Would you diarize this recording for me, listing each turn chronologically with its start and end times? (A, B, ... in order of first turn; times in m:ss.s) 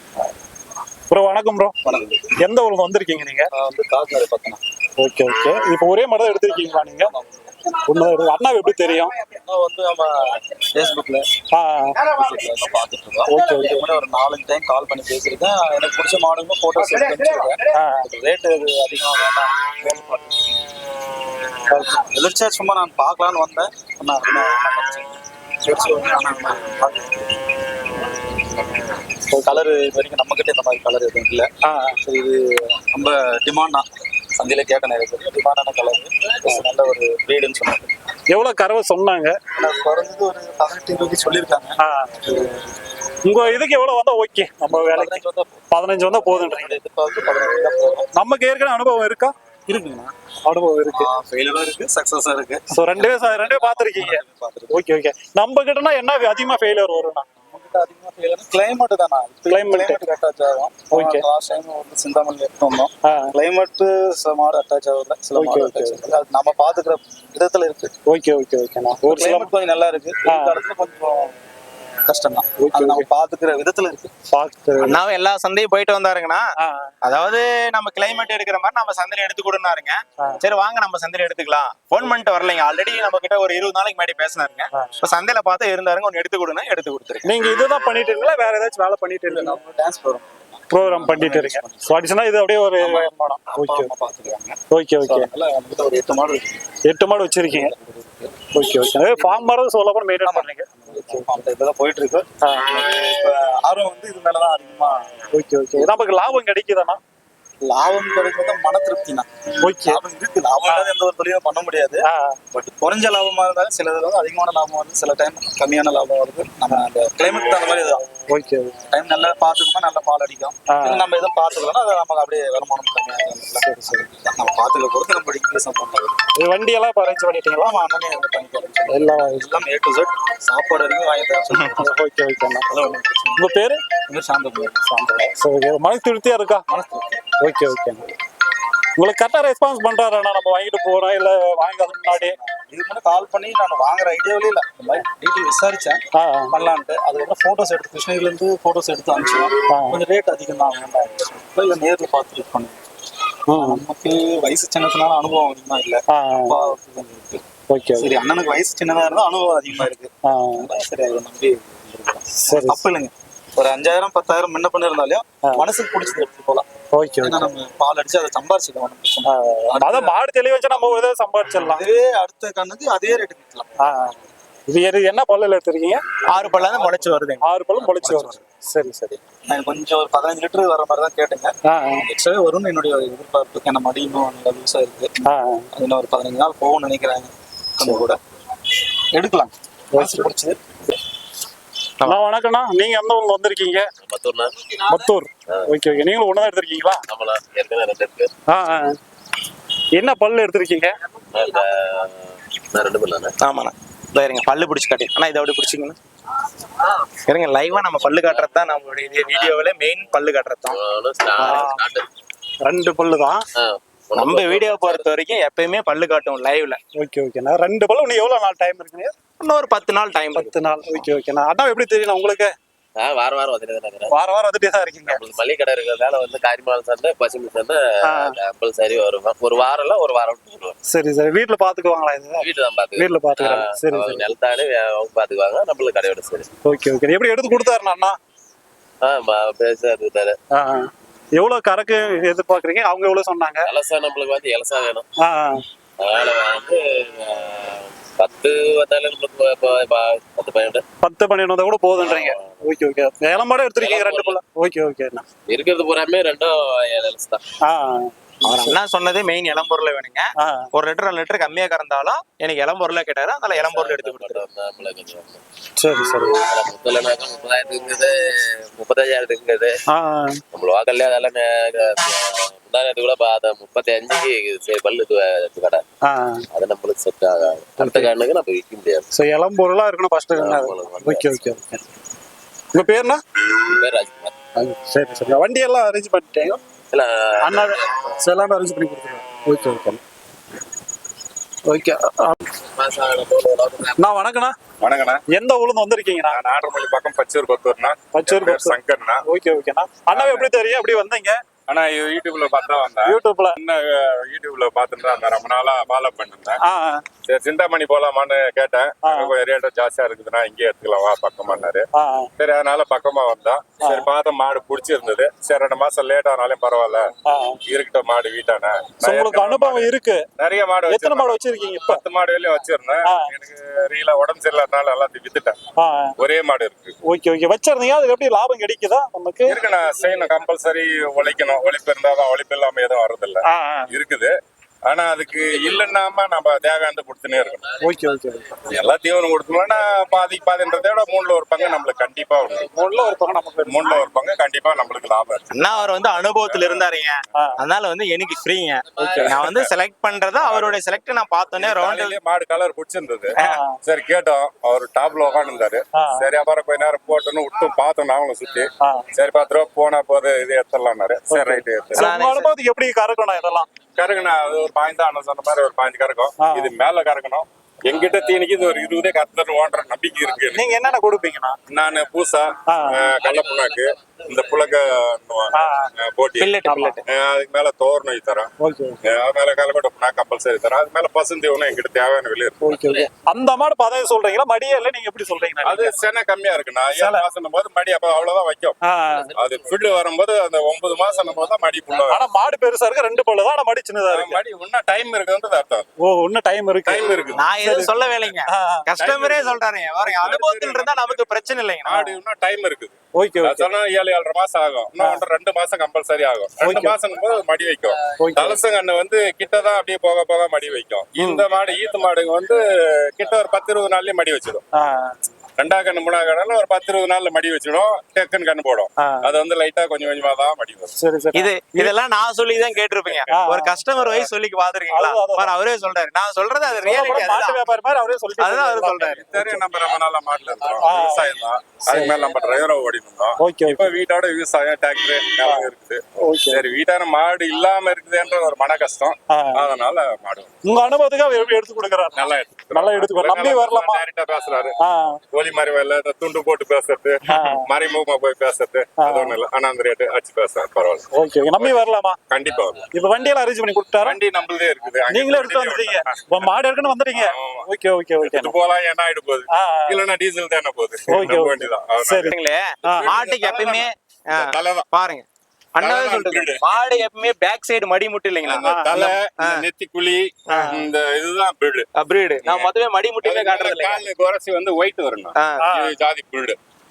0:01.1-0:01.8 A
0:02.4-0:03.5 A
0:03.6-0:04.6 B
0:05.0-0:07.1 A
0:07.1-0:07.5 B
0:07.8-0:09.2 A
0:09.4-0:11.3 B
0:11.5-0:12.0 A
0:12.2-0:20.6 B
0:13.3-0:13.8 A
0:17.7-0:18.1 A
0:21.7-0:22.0 A
0:22.1-0:25.2 B
0:25.7-0:27.3 B
0:29.3-0:29.6 A
0:29.5-0:31.5 B
0:31.6-0:32.0 A
0:32.0-0:37.9 B
0:38.3-0:39.4 A
0:39.6-0:41.8 B
0:41.8-0:42.4 A
0:43.2-0:46.8 A
0:44.8-0:45.6 B
0:46.4-0:48.1 B
0:48.2-0:51.1 A
0:51.0-0:52.7 B
0:52.7-0:57.3 A
0:53.5-0:54.8 B
0:57.5-1:07.9 B
0:59.5-1:00.0 A
1:00.9-1:01.3 A
1:03.1-1:03.3 A
1:05.4-1:06.1 A
1:08.1-1:09.5 A
1:09.1-1:11.4 B
1:10.3-1:10.6 A
1:12.0-1:14.1 B
1:12.6-1:13.1 A
1:14.3-1:15.0 A
1:14.8-1:16.5 C
1:16.6-1:16.9 A
1:17.0-1:27.3 C
1:27.2-1:29.6 A
1:29.4-1:31.9 B
1:30.7-1:33.9 A
1:33.6-1:34.6 B
1:34.7-1:35.3 A
1:35.1-1:36.6 B
1:36.8-1:37.7 A
1:37.5-1:38.4 B
1:38.5-1:41.4 A
1:40.3-1:45.1 B
1:42.4-1:42.7 A
1:45.3-1:47.0 A
1:47.6-1:49.3 B
1:49.6-1:50.0 A
1:49.9-1:58.0 B
1:50.7-1:50.9 A
1:52.0-1:52.4 A
1:58.3-1:58.8 A
1:58.9-2:06.2 B
2:00.7-2:01.1 A
2:03.6-2:04.0 A
2:06.4-2:07.7 A
2:07.6-2:11.7 B
2:08.9-2:09.6 A
2:11.6-2:12.7 A
2:12.7-2:13.4 B
2:13.4-2:13.8 A
2:14.1-2:15.2 B
2:15.1-2:16.6 A
2:16.7-2:17.2 B
2:17.4-2:18.1 A
2:19.0-2:22.4 A
2:22.0-2:26.0 B
2:26.1-2:26.6 A
2:26.5-2:32.8 B
2:29.7-2:30.0 A
2:33.5-2:33.8 A
2:33.8-2:37.4 B
2:36.1-2:36.6 A
2:37.7-2:38.1 A
2:38.0-2:40.1 B
2:40.2-2:40.7 A
2:40.7-2:46.7 B
2:42.4-2:42.8 A
2:46.9-2:47.5 A
2:47.3-2:50.1 B
2:49.2-2:51.8 A
2:51.8-2:53.7 B
2:53.8-2:54.2 A
2:54.7-2:56.0 A
2:56.3-2:58.4 C
2:57.4-2:59.2 A
2:59.5-3:05.2 B
3:01.7-3:02.0 A
3:05.3-3:05.7 A
3:05.7-3:08.2 B
3:09.1-3:10.6 B
3:09.9-3:10.3 A
3:12.0-3:13.9 A
3:14.0-3:14.7 D
3:14.9-3:17.0 A
3:17.1-3:18.3 D
3:18.5-3:19.0 A
3:19.9-3:20.9 A
3:21.3-3:23.3 D
3:23.4-3:26.0 C
3:27.3-3:30.8 C
3:27.7-3:28.5 D
3:29.3-3:30.2 D
3:30.7-3:32.1 D
3:31.4-3:31.7 C
3:31.4-3:31.8 A
3:32.6-3:33.4 A
3:33.6-3:35.1 D
3:34.2-3:36.8 C
3:37.0-3:39.1 A
3:39.4-3:40.5 C
3:40.4-3:42.5 A
3:43.0-3:44.1 D
3:44.1-3:45.2 A
3:45.1-3:50.8 D
3:48.1-3:48.4 A
3:50.9-3:54.3 A
3:52.4-3:56.5 D
3:56.6-3:58.2 A
3:59.0-4:00.4 D
4:00.6-4:03.7 A
4:03.6-4:05.0 D
4:05.2-4:05.6 A
4:06.0-4:10.8 D
4:11.0-4:15.2 A
4:12.0-4:12.6 D
4:13.8-4:14.4 D
4:15.5-4:17.4 D
4:17.6-4:18.8 A
4:18.4-4:24.4 C
4:20.4-4:20.7 A
4:23.5-4:25.4 D
4:25.8-4:26.4 A
4:26.3-4:29.8 D
4:29.9-4:30.4 A
4:30.5-4:35.8 D
4:36.1-4:36.4 A
4:36.5-4:39.1 D
4:37.8-4:38.1 A
4:39.1-4:41.8 A
4:40.4-4:41.6 D
4:42.7-4:43.2 A
4:43.6-4:44.3 D
4:44.6-4:46.6 A
4:46.9-4:47.8 D
4:47.4-4:50.0 A
4:51.7-4:52.4 A
4:52.7-4:54.0 D
4:54.0-4:54.6 A
4:54.8-4:55.2 E
4:55.3-4:56.4 A
4:56.3-4:59.2 E
4:58.1-5:01.4 A
5:00.1-5:00.5 E
5:01.7-5:06.6 E
5:03.0-5:03.6 A
5:06.6-5:07.0 A
5:07.2-5:11.9 E
5:09.0-5:09.3 A
5:11.9-5:12.3 A
5:12.4-5:17.1 E
5:13.8-5:14.1 A
5:17.3-5:17.6 A
5:17.7-5:25.6 E
5:19.0-5:20.2 A
5:20.9-5:22.0 A
5:25.8-5:26.1 A
5:26.2-5:27.0 E
5:27.1-5:29.6 A
5:29.5-5:34.3 E
5:33.5-5:33.9 A
5:34.9-5:37.6 E
5:37.8-5:38.5 A
5:38.7-5:42.7 E
5:42.6-5:44.0 A
5:43.7-5:45.8 E
5:45.5-5:52.2 C
5:46.4-5:46.9 E
5:49.0-5:49.7 E
5:49.1-5:49.5 A
5:50.4-5:50.8 E
5:51.6-6:02.1 E
5:53.4-5:53.8 A
5:56.0-5:56.3 A
6:01.3-6:03.7 A
6:02.0-6:02.5 C
6:04.0-6:10.7 E
6:06.4-6:06.7 A
6:10.5-6:11.6 A
6:11.7-6:18.5 E
6:12.7-6:13.0 A
6:13.3-6:14.7 D
6:15.5-6:15.9 A
6:16.4-6:17.1 C
6:16.7-6:17.0 A
6:18.6-6:19.0 A
6:19.0-6:22.7 E
6:22.6-6:25.9 A
6:22.7-6:23.1 D
6:25.6-6:28.8 E
6:26.9-6:27.2 A
6:28.8-6:29.3 A
6:29.1-6:30.0 D
6:29.4-6:32.2 E
6:31.0-6:31.5 D
6:32.1-6:34.4 A
6:34.1-6:35.9 E
6:36.0-6:37.1 A
6:36.9-6:37.5 E
6:37.3-6:41.9 C
6:37.6-6:37.9 A
6:38.5-6:38.9 A
6:39.0-6:54.6 E
6:41.9-6:42.2 A
6:43.2-6:43.7 A
6:46.6-6:47.0 A
6:48.2-6:48.6 A
6:54.8-6:55.2 A
6:55.6-7:01.0 E
6:59.0-6:59.3 A
7:01.0-7:01.9 A
7:01.4-7:07.6 C
7:03.3-7:04.3 A
7:04.9-7:05.5 A
7:06.8-7:09.6 A
7:08.4-7:09.3 C
7:09.3-7:20.6 E
7:10.8-7:12.2 A
7:13.4-7:13.9 A
7:16.2-7:16.6 A
7:19.3-7:19.6 A
7:20.7-7:24.0 A
7:22.2-7:24.8 E
7:24.8-7:25.2 A
7:25.3-7:31.1 E
7:27.3-7:27.7 A
7:29.0-7:29.4 A
7:31.1-7:32.2 A
7:31.6-7:32.9 E
7:32.9-7:34.2 A
7:34.0-7:36.5 E
7:35.1-7:38.5 A
7:37.1-7:37.7 E
7:38.2-7:42.4 E
7:39.5-7:40.0 A
7:41.1-7:43.2 A
7:42.3-7:49.7 C
7:42.9-7:44.9 E
7:45.8-7:46.6 E
7:48.5-7:51.9 E
7:48.6-7:49.1 A
7:50.5-7:50.8 C
7:52.0-7:54.0 C
7:52.4-7:56.6 E
7:55.4-7:55.6 C
7:55.6-7:55.9 A